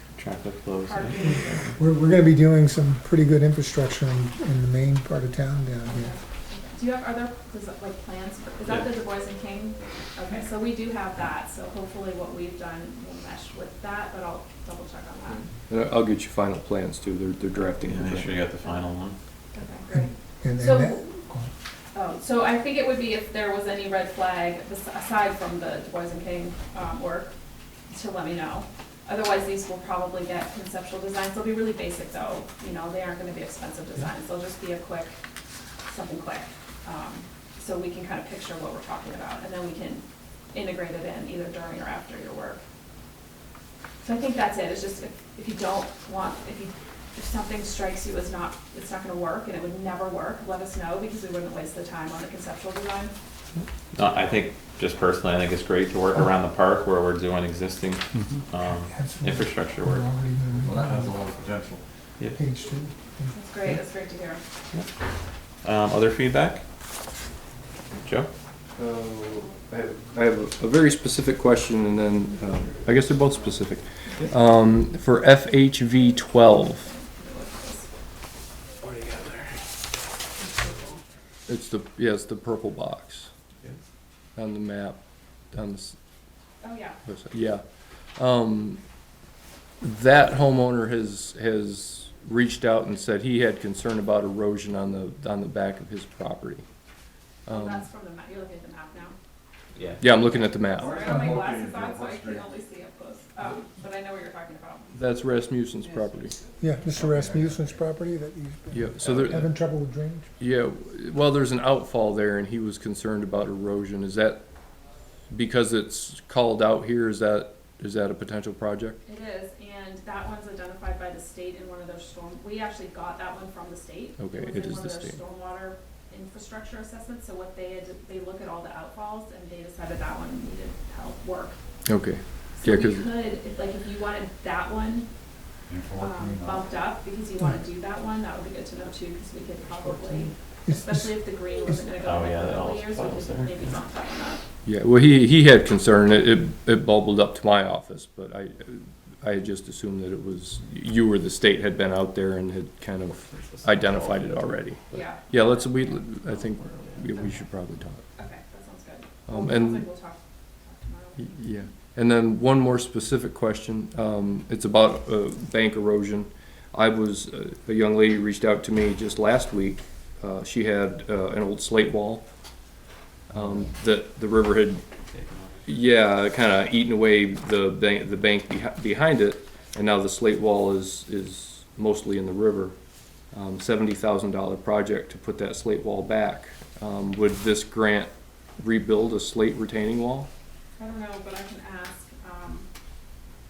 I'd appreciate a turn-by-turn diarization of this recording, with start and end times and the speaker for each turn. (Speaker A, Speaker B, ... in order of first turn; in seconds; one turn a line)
Speaker A: 0.2-1.8
Speaker B: 0.8-1.7
Speaker C: 1.2-6.1
Speaker B: 5.9-15.5
Speaker D: 15.7-18.4
Speaker A: 17.9-19.2
Speaker B: 19.5-21.1
Speaker C: 19.9-21.5
Speaker B: 21.9-27.3
Speaker B: 27.9-35.1
Speaker B: 35.9-42.6
Speaker B: 44.0-53.1
Speaker A: 53.9-60.0
Speaker C: 58.8-61.2
Speaker E: 60.8-61.8
Speaker C: 62.3-63.3
Speaker B: 63.3-64.4
Speaker A: 65.6-66.6
Speaker A: 68.0-68.3
Speaker D: 68.8-76.9
Speaker B: 76.7-77.9
Speaker D: 81.5-83.3
Speaker D: 84.3-85.0
Speaker D: 85.5-86.0
Speaker B: 86.6-87.0
Speaker D: 87.0-87.6
Speaker D: 88.2-88.8
Speaker D: 89.8-96.6
Speaker D: 97.5-97.8
Speaker B: 97.5-99.2
Speaker A: 99.7-100.5
Speaker D: 100.0-101.1
Speaker B: 100.7-105.0
Speaker E: 100.8-102.5
Speaker D: 104.9-106.3
Speaker C: 106.6-110.4
Speaker D: 108.7-109.5
Speaker D: 110.4-114.4
Speaker D: 115.3-119.0
Speaker B: 119.0-131.6
Speaker D: 124.2-125.2
Speaker D: 131.9-133.1
Speaker B: 132.6-135.1
Speaker E: 135.7-136.7
Speaker B: 135.9-144.4
Speaker C: 140.7-141.1
Speaker A: 142.0-143.6
Speaker D: 144.6-158.0
Speaker A: 153.6-154.2
Speaker B: 154.9-156.0
Speaker B: 158.2-161.4
Speaker D: 159.3-159.9
Speaker D: 161.2-172.3
Speaker D: 173.3-174.8
Speaker A: 175.1-175.7
Speaker D: 175.7-182.7
Speaker D: 183.3-190.3
Speaker B: 190.8-192.7